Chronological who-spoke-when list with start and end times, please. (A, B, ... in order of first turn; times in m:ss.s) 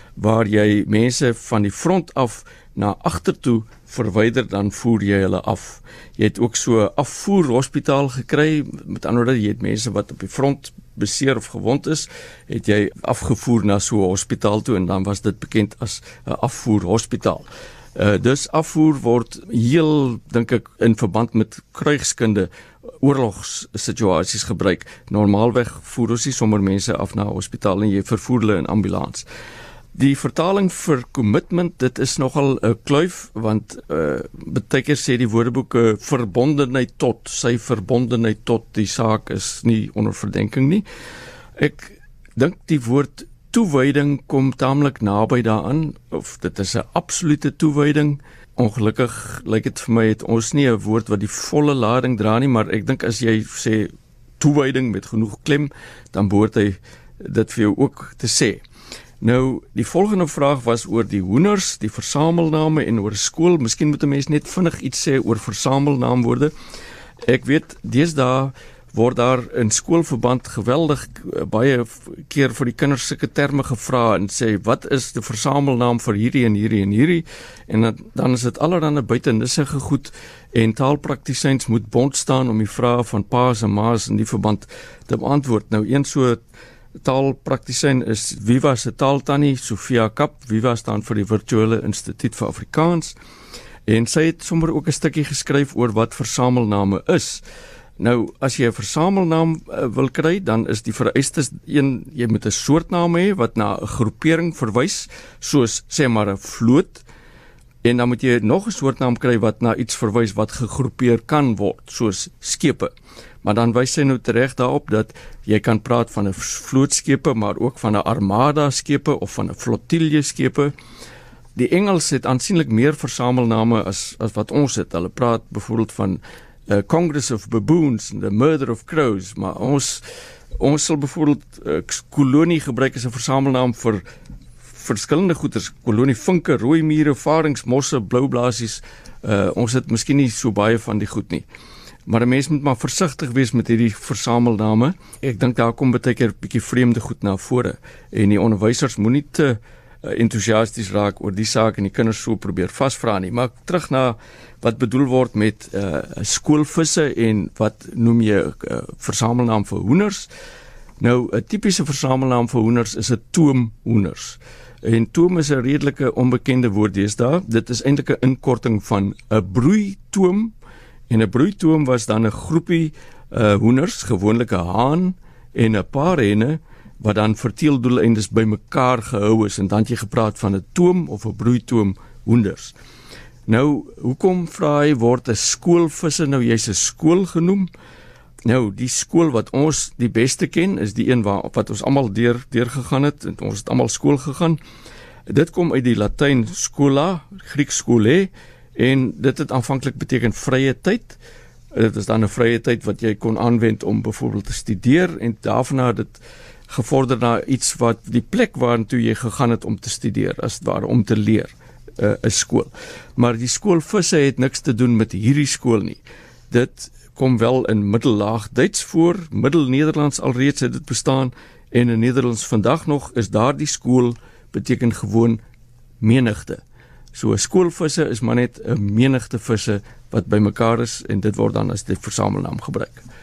0:00.2-0:22.5 A
0:23.0-0:29.2 A
0:30.0-0:40.8 A
0:41.6-0:58.6 A
0:59.2-1:06.5 A
1:07.2-1:26.4 A
1:27.0-1:33.2 A
1:33.9-1:37.4 A
1:38.0-1:47.0 A
1:47.8-1:52.9 A
1:53.4-2:00.7 A
2:01.6-2:10.0 A
2:10.6-2:14.0 A
2:14.7-2:21.5 A
2:22.1-2:40.3 A
2:41.0-2:50.5 A
2:51.1-3:02.8 A
3:03.5-3:07.7 A
3:08.5-3:14.6 A
3:15.3-3:21.2 A
3:21.7-3:45.4 A
3:46.0-3:46.6 A
3:47.1-3:53.0 A